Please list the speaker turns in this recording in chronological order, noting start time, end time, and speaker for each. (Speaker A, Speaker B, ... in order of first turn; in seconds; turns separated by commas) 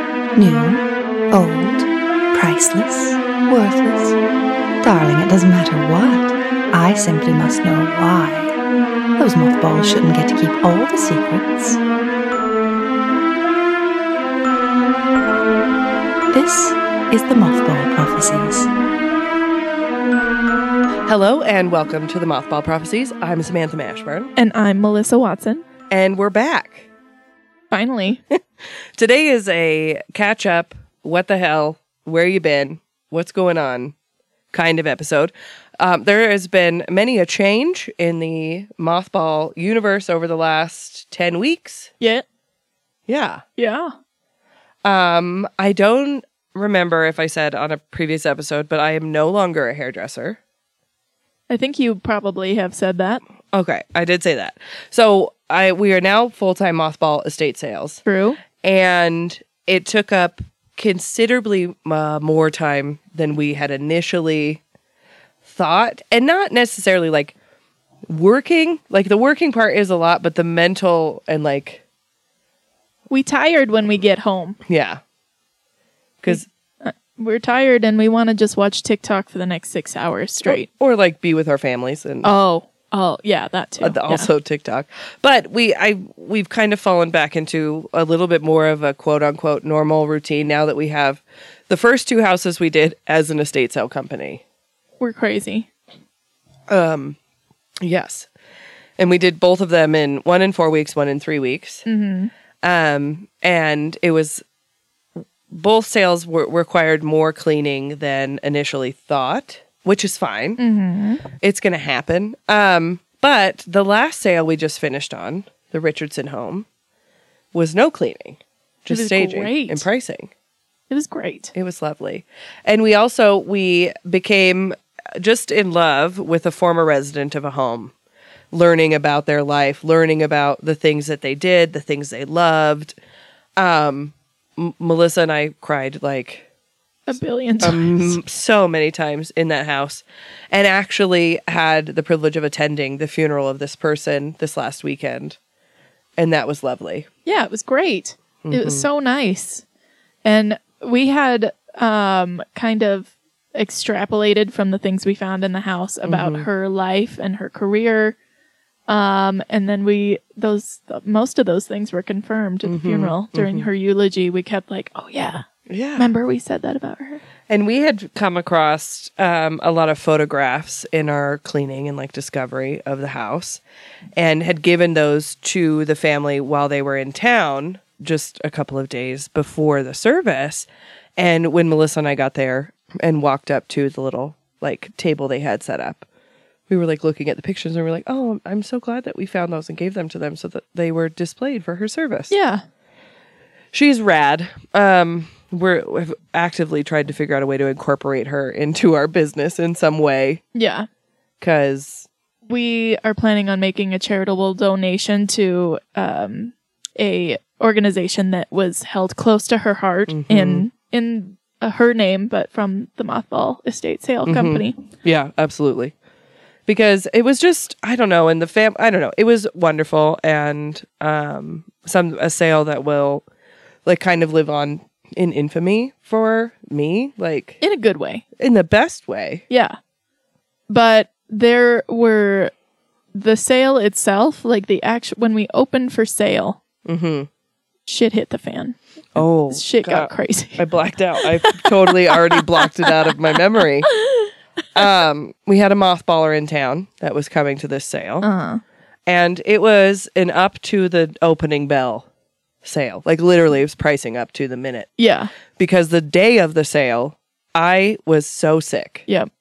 Speaker A: 0.4-4.2, Speaker A: 4.8-8.6, Speaker A: 9.2-11.8, Speaker A: 16.3-18.7, Speaker B: 21.1-24.3, Speaker C: 24.4-25.6, Speaker B: 25.9-26.9, Speaker C: 27.7-28.2, Speaker B: 29.0-33.9, Speaker B: 34.5-41.9, Speaker C: 42.0-42.2, Speaker B: 43.1-43.4, Speaker C: 43.6-43.9, Speaker B: 44.8-50.4, Speaker C: 51.5-53.2, Speaker B: 53.5-58.0, Speaker C: 58.0-58.4, Speaker B: 58.6-64.6, Speaker B: 65.4-67.3, Speaker B: 68.1-71.8, Speaker C: 73.1-74.6, Speaker B: 74.7-75.0, Speaker C: 76.3-80.7, Speaker B: 80.4-82.3, Speaker C: 82.2-84.3, Speaker B: 83.8-94.4, Speaker C: 95.0-95.7, Speaker B: 96.7-97.2, Speaker B: 97.8-98.3, Speaker B: 99.0-101.8, Speaker C: 101.9-102.3, Speaker B: 102.6-104.4, Speaker B: 105.5-110.6, Speaker C: 110.6-111.2, Speaker B: 111.4-116.7, Speaker B: 117.5-120.3, Speaker C: 118.9-119.9, Speaker C: 120.9-121.5, Speaker B: 121.5-127.9, Speaker B: 128.5-133.0, Speaker B: 133.6-136.5, Speaker C: 137.1-138.2, Speaker B: 137.6-145.4, Speaker B: 146.2-147.1, Speaker C: 147.3-149.6, Speaker B: 148.4-148.9, Speaker C: 150.2-158.2, Speaker B: 156.1-156.5, Speaker C: 158.9-165.4, Speaker B: 162.7-163.7, Speaker B: 165.7-166.1, Speaker C: 166.0-167.2, Speaker B: 167.5-173.6, Speaker B: 174.2-186.1, Speaker B: 186.7-192.3, Speaker C: 192.3-192.6, Speaker B: 193.7-200.4, Speaker C: 200.6-200.9, Speaker B: 201.4-202.1, Speaker C: 202.5-214.8, Speaker B: 210.1-210.7, Speaker B: 214.3-215.9, Speaker B: 216.7-223.3, Speaker B: 223.9-227.6, Speaker C: 227.6-228.2, Speaker B: 228.4-229.4, Speaker C: 229.5-229.8, Speaker C: 230.7-232.5, Speaker C: 233.1-236.6, Speaker B: 236.8-237.3, Speaker C: 237.9-238.8, Speaker B: 239.2-243.9, Speaker C: 239.5-240.6, Speaker C: 241.2-242.6, Speaker B: 244.8-248.3, Speaker C: 248.2-248.6, Speaker B: 249.1-252.1, Speaker B: 252.6-254.9, Speaker C: 255.0-255.3, Speaker B: 255.6-259.1